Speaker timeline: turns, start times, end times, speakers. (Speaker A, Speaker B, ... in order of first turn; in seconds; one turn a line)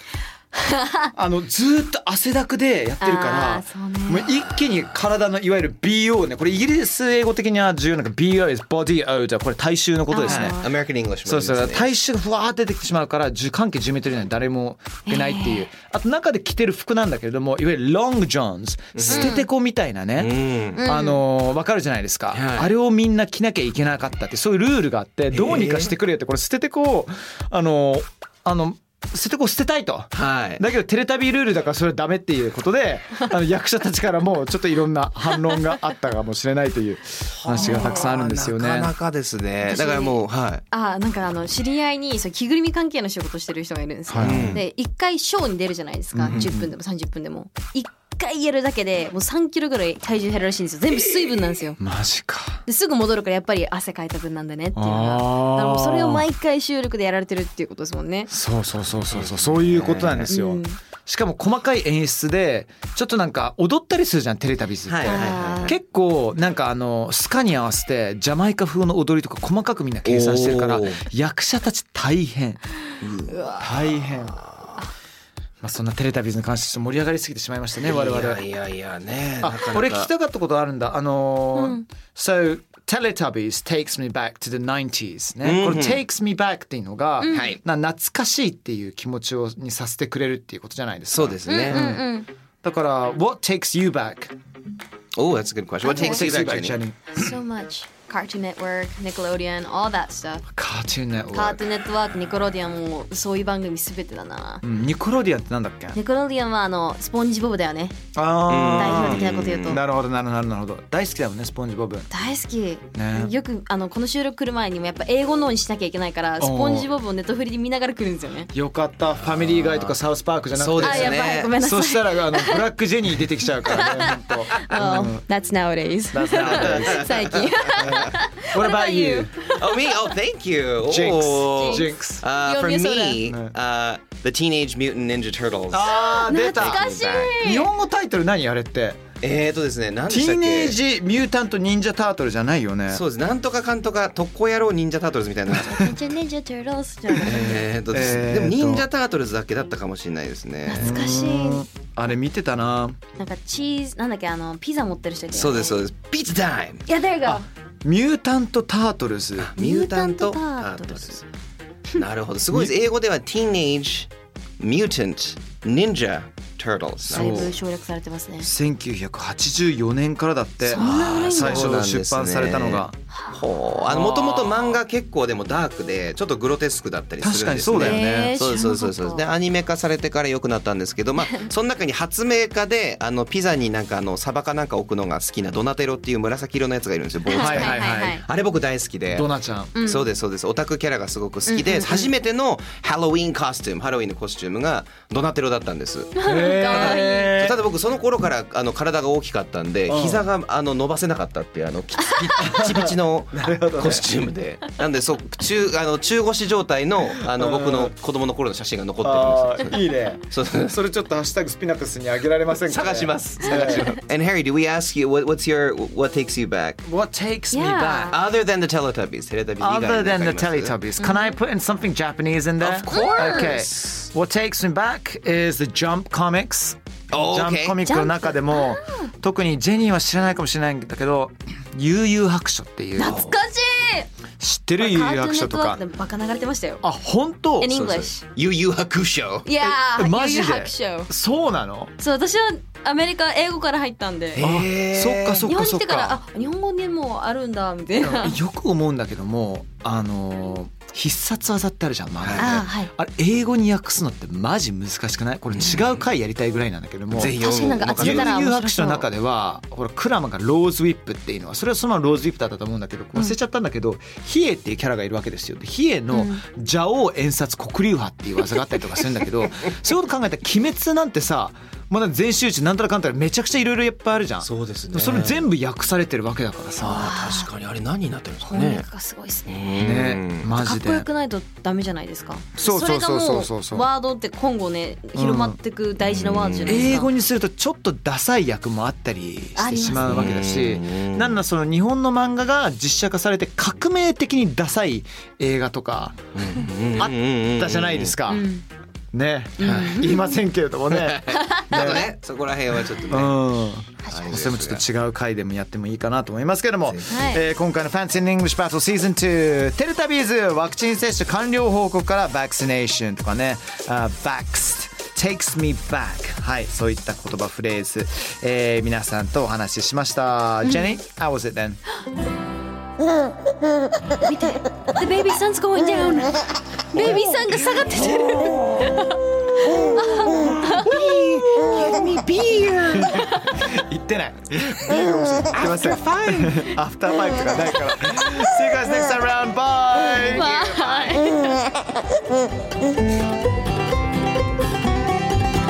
Speaker A: 0.7-1.1
Speaker B: 1.1-10.6
Speaker A: 3.0-4.3
Speaker A: 10.1-10.8
Speaker C: 10.2-11.9
Speaker B: 11.2-39.0
Speaker A: 15.1-15.7
Speaker C: 19.0-19.4
Speaker A: 19.1-19.5
Speaker C: 20.2-20.9
Speaker A: 20.8-21.2
Speaker C: 22.3-22.7
Speaker C: 25.3-25.9
Speaker C: 30.1-30.6
Speaker C: 37.4-40.6
Speaker A: 37.6-38.1
Speaker A: 39.6-51.8
Speaker B: 44.1-44.6
Speaker C: 44.2-44.6
Speaker B: 46.1-46.7
Speaker B: 51.8-52.6
Speaker A: 52.7-58.3
Speaker B: 54.8-56.3
Speaker B: 58.3-72.6
Speaker C: 59.1-60.3
Speaker A: 60.3-60.8
Speaker C: 64.9-65.8
Speaker A: 65.0-65.8
Speaker C: 70.1-71.0
Speaker C: 73.0-74.7
Speaker B: 73.6-74.4
Speaker B: 75.6-78.4
Speaker C: 77.8-80.1
Speaker B: 79.4-92.1
Speaker A: 81.5-81.8
Speaker C: 85.4-86.0
Speaker A: 87.2-87.5
Speaker C: 87.3-87.6
Speaker C: 91.1-91.9
Speaker A: 91.5-92.3
Speaker B: 92.6-94.3
Speaker C: 95.2-96.8
Speaker A: 95.8-96.2
Speaker B: 95.9-97.0
Speaker A: 97.1-100.5
Speaker B: 100.5-101.6
Speaker A: 101.3-104.6
Speaker B: 104.6-106.0
Speaker A: 106.0-108.0
Speaker B: 108.2-112.1
Speaker C: 108.5-109.8
Speaker A: 108.7-109.8
Speaker A: 112.1-118.5
Speaker B: 113.0-113.3
Speaker B: 116.4-116.9
Speaker B: 118.5-125.2
Speaker C: 119.2-120.0
Speaker C: 120.5-121.5
Speaker A: 120.8-122.7
Speaker A: 123.6-129.9
Speaker C: 124.7-125.0
Speaker B: 126.1-129.3
Speaker C: 126.4-128.1
Speaker C: 129.6-137.3
Speaker B: 130.8-132.2
Speaker A: 131.6-133.2
Speaker B: 133.3-133.5
Speaker B: 135.7-139.0
Speaker A: 135.9-137.7
Speaker C: 139.2-140.8
Speaker B: 140.1-143.0
Speaker C: 142.9-145.9
Speaker A: 145.5-147.7
Speaker C: 147.2-151.1
Speaker B: 147.9-148.9
Speaker A: 150.7-151.7
Speaker B: 150.8-153.0
Speaker A: 153.2-155.9
Speaker C: 155.3-156.8
Speaker A: 156.9-157.5
Speaker B: 157.2-159.5
Speaker C: 159.4-161.2
Speaker A: 159.6-161.3
Speaker C: 161.9-167.5
Speaker B: 167.1-167.6
Speaker A: 167.1-168.5
Speaker B: 168.4-173.0
Speaker A: 170.6-171.9
Speaker C: 170.8-189.3
Speaker A: 173.1-173.4
Speaker B: 173.9-174.8
Speaker B: 177.2-178.4
Speaker A: 177.8-179.3
Speaker A: 187.3-188.2
Speaker B: 187.3-188.2
Speaker B: 189.1-189.7
Speaker A: 189.8-190.1
Speaker C: 189.9-210.8
Speaker A: 191.5-192.1
Speaker A: 196.2-197.3
Speaker B: 196.2-197.6
Speaker B: 199.9-200.3
Speaker B: 202.4-204.1
Speaker B: 207.1-207.9
Speaker B: 209.0-213.9
Speaker C: 212.7-216.8
Speaker B: 216.8-218.2
Speaker A: 217.5-218.2
Speaker C: 218.1-220.8
Speaker B: 219.6-233.2
Speaker A: 221.0-221.3
Speaker C: 222.6-224.0
Speaker A: 222.9-223.6
Speaker C: 227.1-227.8
Speaker A: 227.9-229.1
Speaker A: 233.0-234.1
Speaker C: 233.1-233.4
Speaker B: 234.4-235.8
Speaker A: 234.8-236.8
Speaker B: 236.8-237.7
Speaker A: 237.6-238.3
Speaker C: 237.7-239.5
Speaker A: 239.4-241.1
Speaker B: 239.6-241.9
Speaker A: 242.0-244.4
Speaker C: 244.4-245.5
Speaker B: 244.4-246.2
Speaker A: 245.5-248.4
Speaker B: 248.0-277.1
Speaker C: 252.2-252.6
Speaker A: 252.4-252.9
Speaker C: 255.5-256.0
Speaker C: 257.1-258.4
Speaker A: 257.2-259.1
Speaker A: 266.1-266.4
Speaker C: 274.4-275.5
Speaker A: 276.8-277.5
Speaker C: 276.9-278.9
Speaker A: 278.5-287.1
Speaker C: 279.5-280.5
Speaker B: 279.8-281.1
Speaker B: 282.6-283.9
Speaker B: 285.2-285.6
Speaker C: 286.0-286.9
Speaker B: 286.6-296.2
Speaker A: 289.6-290.4
Speaker C: 289.9-291.4
Speaker C: 296.4-298.2
Speaker B: 297.0-298.5
Speaker A: 298.3-298.6
Speaker B: 299.1-302.1
Speaker A: 299.6-300.4
Speaker C: 299.6-300.0
Speaker C: 300.9-303.4
Speaker A: 301.4-302.1
Speaker B: 303.1-321.8
Speaker C: 304.1-304.8
Speaker C: 306.9-307.4
Speaker A: 307.1-307.4
Speaker A: 320.6-321.0
Speaker A: 324.2-329.2
Speaker B: 327.0-327.2
Speaker C: 328.1-328.6
Speaker A: 329.7-330.9
Speaker B: 330.4-332.0
Speaker C: 330.7-333.2
Speaker B: 332.9-341.3
Speaker C: 335.5-336.6
Speaker A: 340.2-341.7